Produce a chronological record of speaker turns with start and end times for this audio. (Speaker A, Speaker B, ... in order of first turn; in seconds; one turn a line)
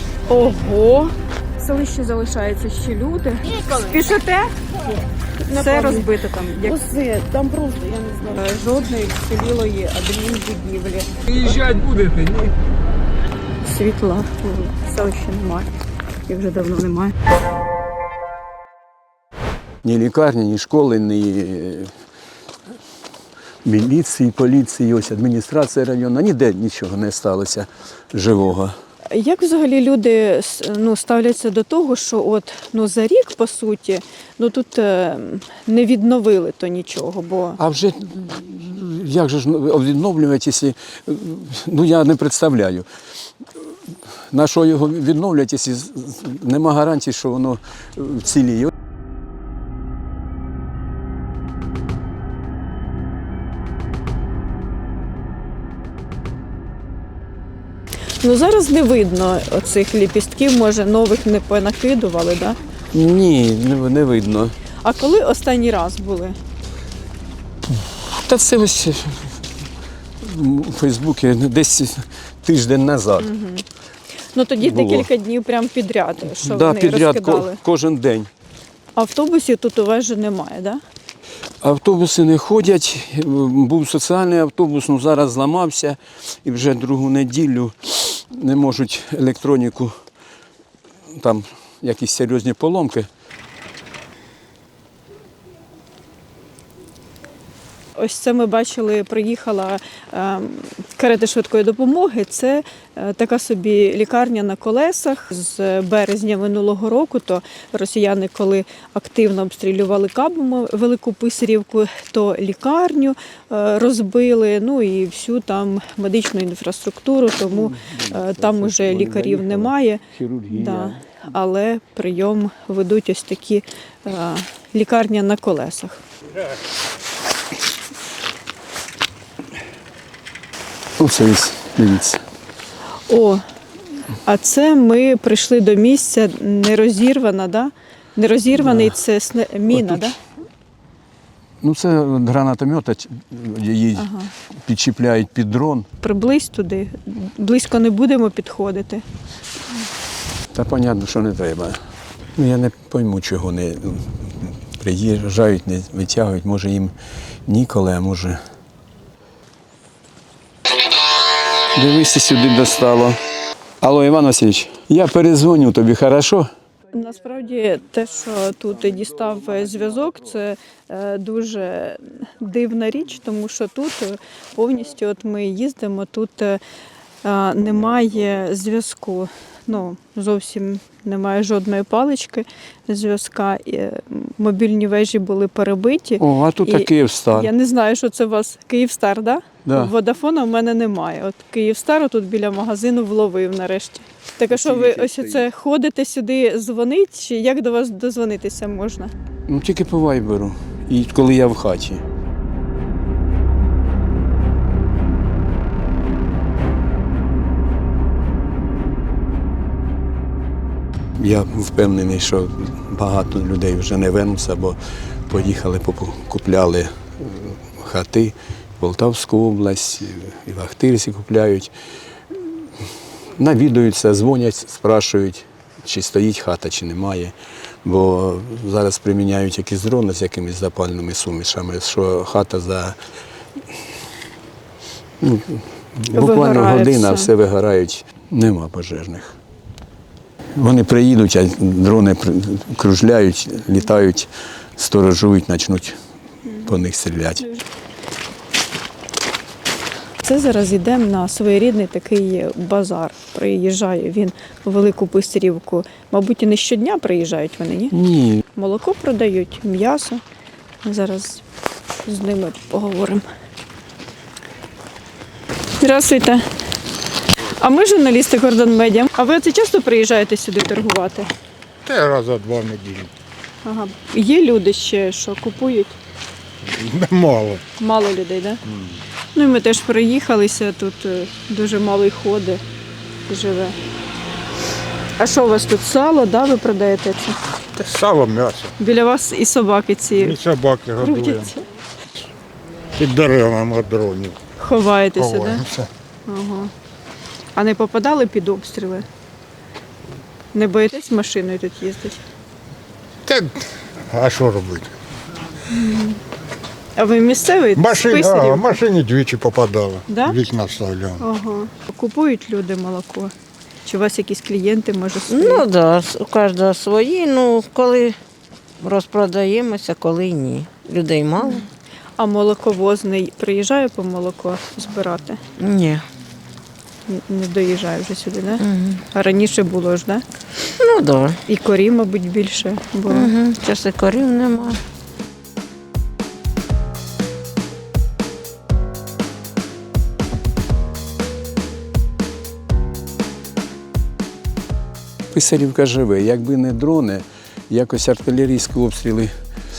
Speaker A: 0.3-4.5
Speaker A: 5.5-6.8
Speaker B: 5.5-6.1
Speaker B: 6.7-8.5
Speaker A: 8.3-11.9
Speaker B: 9.3-11.4
Speaker A: 13.6-15.7
Speaker A: 16.3-17.1
Speaker C: 19.8-21.9
Speaker C: 23.6-28.7
Speaker A: 29.1-37.5
Speaker C: 37.6-42.9
Speaker C: 44.3-48.7
Speaker A: 58.2-62.6
Speaker C: 62.9-64.5
Speaker A: 64.9-66.3
Speaker C: 68.0-69.3
Speaker C: 70.2-73.4
Speaker A: 74.4-77.6
Speaker C: 74.6-75.1
Speaker C: 76.2-78.3
Speaker A: 79.0-80.8
Speaker C: 81.6-89.9
Speaker C: 91.1-93.1
Speaker A: 98.0-126.0
Speaker C: 117.5-121.2
Speaker C: 131.0-132.2
Speaker A: 134.2-140.1
Speaker C: 138.5-138.9
Speaker C: 139.7-140.2
Speaker C: 141.6-144.1
Speaker C: 144.7-145.9
Speaker A: 146.0-149.0
Speaker C: 150.5-151.8
Speaker C: 152.3-156.9
Speaker C: 157.4-158.4
Speaker C: 161.7-163.2
Speaker C: 163.8-166.5
Speaker A: 166.9-176.6
Speaker A: 177.2-186.9
Speaker C: 186.2-187.5
Speaker A: 187.4-199.1
Speaker C: 189.6-189.9
Speaker C: 194.5-195.5
Speaker C: 199.5-202.0
Speaker C: 211.2-214.8
Speaker C: 215.3-221.7
Speaker C: 223.3-233.0
Speaker C: 235.2-239.3
Speaker A: 236.2-237.3
Speaker C: 240.6-246.0
Speaker C: 246.6-247.5
Speaker A: 250.2-257.9
Speaker C: 257.9-258.4
Speaker A: 258.6-260.2
Speaker A: 260.8-261.4
Speaker A: 262.1-263.2
Speaker A: 265.8-266.5
Speaker A: 267.6-271.3
Speaker D: 271.9-273.1
Speaker A: 273.6-276.0
Speaker D: 276.6-277.6
Speaker A: 277.8-278.6
Speaker A: 279.3-282.6
Speaker A: 283.3-283.8
Speaker A: 285.2-287.4
Speaker D: 287.8-288.7
Speaker A: 288.8-290.3
Speaker D: 290.1-291.5
Speaker A: 291.0-291.6
Speaker D: 292.9-294.4
Speaker A: 294.6-295.6
Speaker D: 295.1-295.9
Speaker A: 296.2-296.7
Speaker A: 297.5-299.1
Speaker A: 300.5-302.2
Speaker D: 303.2-304.9
Speaker A: 305.7-306.2
Speaker A: 306.9-308.7
Speaker D: 307.8-311.2
Speaker A: 310.1-310.3
Speaker A: 311.2-313.3
Speaker A: 313.9-315.7
Speaker E: 315.3-318.2
Speaker E: 318.8-321.7
Speaker A: 322.2-325.4
Speaker E: 325.6-326.1
Speaker A: 327.1-330.2
Speaker E: 328.6-329.1
Speaker E: 330.8-331.4
Speaker A: 331.5-333.3
Speaker E: 333.1-334.8
Speaker C: 345.3-349.3